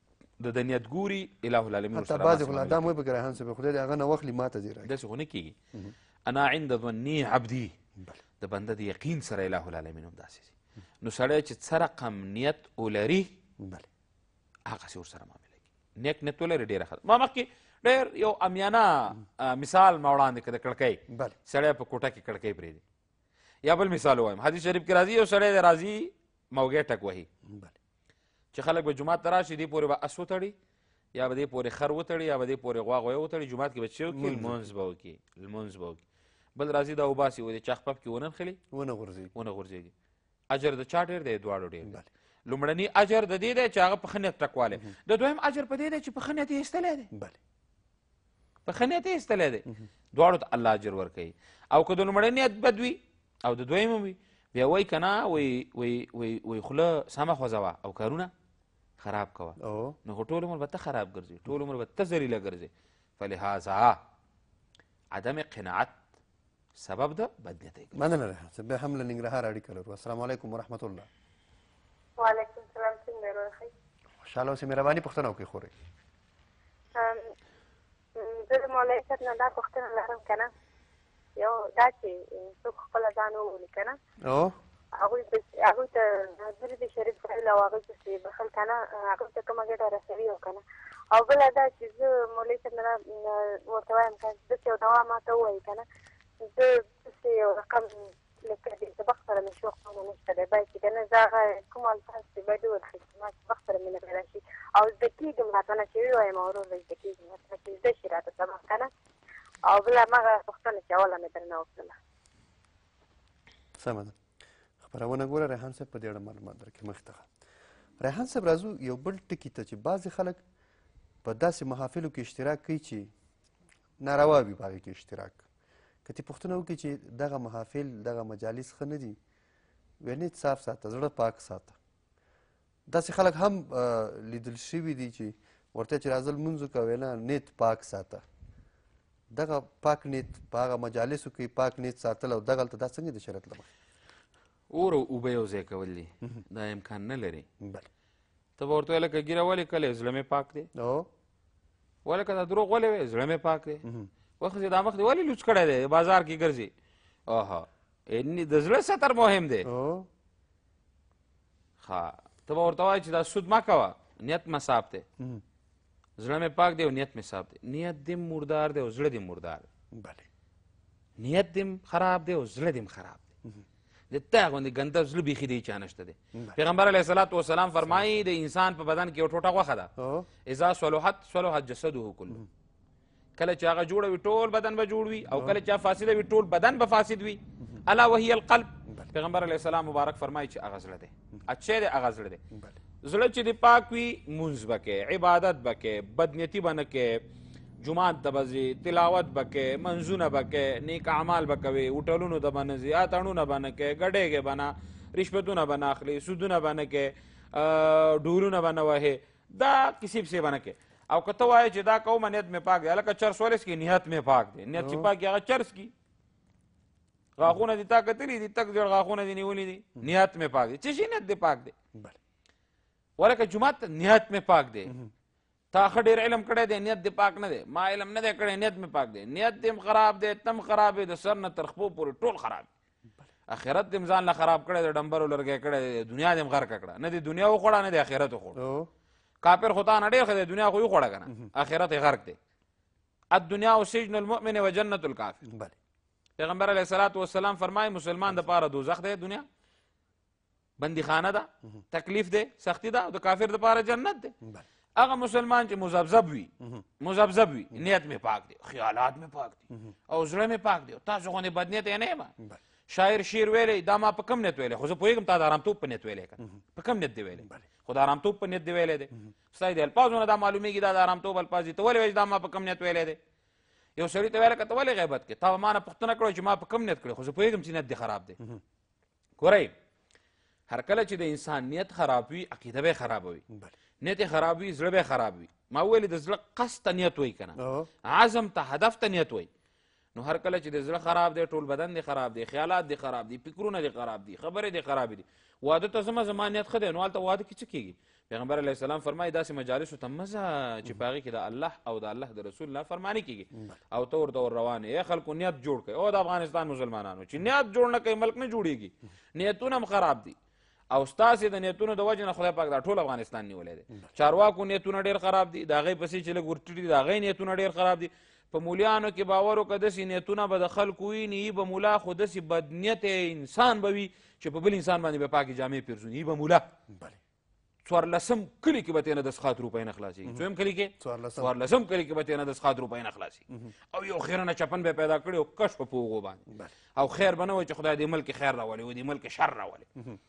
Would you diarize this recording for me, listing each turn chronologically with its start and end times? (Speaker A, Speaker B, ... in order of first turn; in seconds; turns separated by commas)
Speaker A: 0.4-2.9, Speaker B: 1.9-4.9, Speaker A: 4.8-5.5, Speaker A: 6.3-7.7, Speaker A: 8.4-13.3, Speaker B: 13.6-13.9, Speaker A: 14.7-22.8, Speaker B: 21.1-21.4, Speaker A: 23.6-27.3, Speaker B: 27.4-27.7, Speaker A: 28.5-30.5, Speaker A: 31.1-36.0, Speaker B: 34.1-34.7, Speaker A: 36.5-38.6, Speaker B: 38.7-39.3, Speaker A: 39.3-39.9, Speaker A: 40.5-47.1, Speaker B: 47.1-47.4, Speaker A: 48.6-58.3, Speaker A: 59.0-64.0, Speaker B: 59.6-60.0, Speaker A: 65.1-66.0, Speaker A: 66.8-68.1, Speaker B: 67.9-71.1, Speaker C: 72.2-73.7, Speaker B: 74.2-75.7, Speaker C: 77.0-77.3, Speaker C: 78.2-80.5, Speaker C: 81.4-84.0, Speaker B: 84.2-84.5, Speaker C: 85.0-90.6, Speaker C: 91.1-95.8, Speaker C: 96.5-108.9, Speaker C: 109.7-112.0, Speaker B: 113.8-114.2, Speaker B: 114.8-117.3, Speaker B: 118.0-120.4, Speaker B: 121.2-123.1, Speaker B: 124.0-125.4, Speaker B: 126.0-129.2, Speaker B: 130.0-131.8, Speaker B: 132.9-138.2, Speaker B: 139.3-143.7, Speaker A: 144.7-147.4, Speaker B: 147.6-147.9, Speaker A: 148.6-150.7, Speaker B: 150.7-151.1, Speaker A: 152.0-153.8, Speaker B: 153.8-154.1, Speaker A: 154.4-156.7, Speaker A: 157.3-159.7, Speaker B: 159.6-160.1, Speaker A: 161.8-165.1, Speaker A: 166.2-169.7, Speaker B: 169.9-170.3, Speaker A: 171.2-173.2, Speaker A: 174.1-179.9, Speaker B: 180.0-180.3, Speaker A: 180.4-182.5, Speaker A: 183.4-192.4, Speaker B: 185.3-185.6, Speaker A: 193.0-197.2, Speaker A: 197.8-215.9, Speaker B: 214.8-215.1, Speaker A: 217.4-221.7, Speaker A: 223.2-224.9, Speaker A: 225.7-232.7, Speaker A: 233.5-238.6, Speaker B: 238.6-238.9, Speaker A: 239.4-242.4, Speaker A: 243.3-245.4, Speaker B: 245.5-245.7, Speaker A: 246.4-249.4, Speaker A: 250.8-254.3, Speaker A: 255.0-262.3, Speaker A: 262.9-273.2, Speaker A: 274.0-278.4, Speaker A: 279.4-279.7, Speaker A: 280.7-283.4, Speaker A: 284.0-289.5, Speaker B: 287.6-287.9, Speaker A: 290.1-310.3, Speaker A: 310.9-326.6, Speaker B: 326.9-327.2, Speaker A: 327.8-336.4, Speaker B: 331.0-331.5, Speaker A: 337.0-339.8